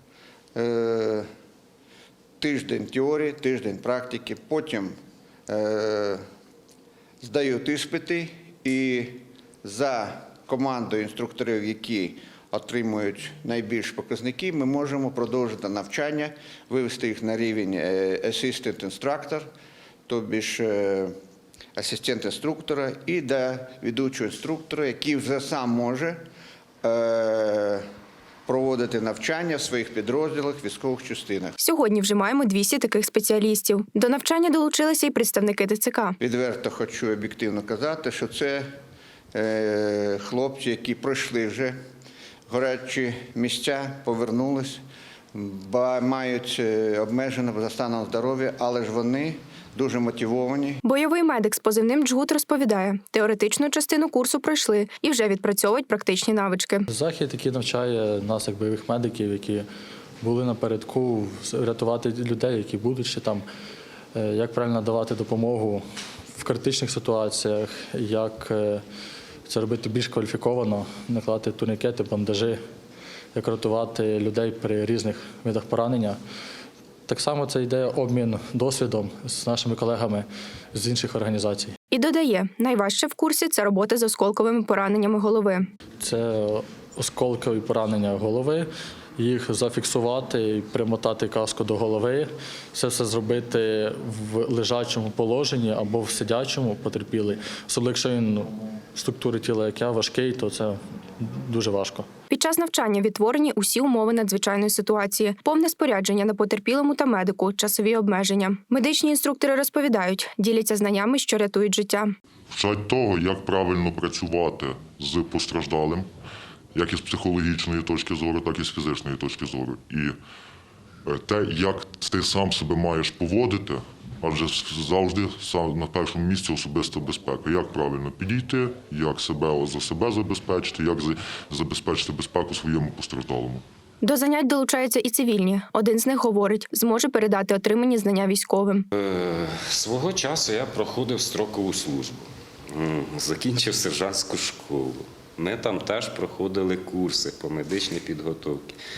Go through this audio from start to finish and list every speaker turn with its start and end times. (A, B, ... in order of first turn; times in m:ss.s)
0:00.5-0:01.3 A
0:02.4-0:04.9 A
0:05.5-0:06.2 A
0:07.2-0:19.5 A
0:20.1-0:21.1 A
0:21.8-0:26.2 A
0:26.8-0:27.8 A
0:28.4-0:31.6 A
0:31.6-0:36.2 B
0:36.2-0:38.7 A
0:39.3-0:41.8 A
0:42.5-0:44.8 A
0:45.3-0:50.8 A
0:50.8-0:56.8 B
0:56.9-0:59.6 C
1:00.2-1:03.4 C
1:04.1-1:05.8 C
1:06.4-1:08.8 C
1:09.5-1:12.6 C
1:13.3-1:16.2 C
1:17.1-1:21.7 C
1:21.9-1:25.7 B
1:26.0-1:28.7 C
1:29.2-1:42.1 C
1:42.3-1:52.1 B
1:52.5-1:56.1 D
1:56.7-2:00.2 D
2:01.0-2:13.6 D
2:14.0-2:18.8 B
2:18.9-2:28.7 E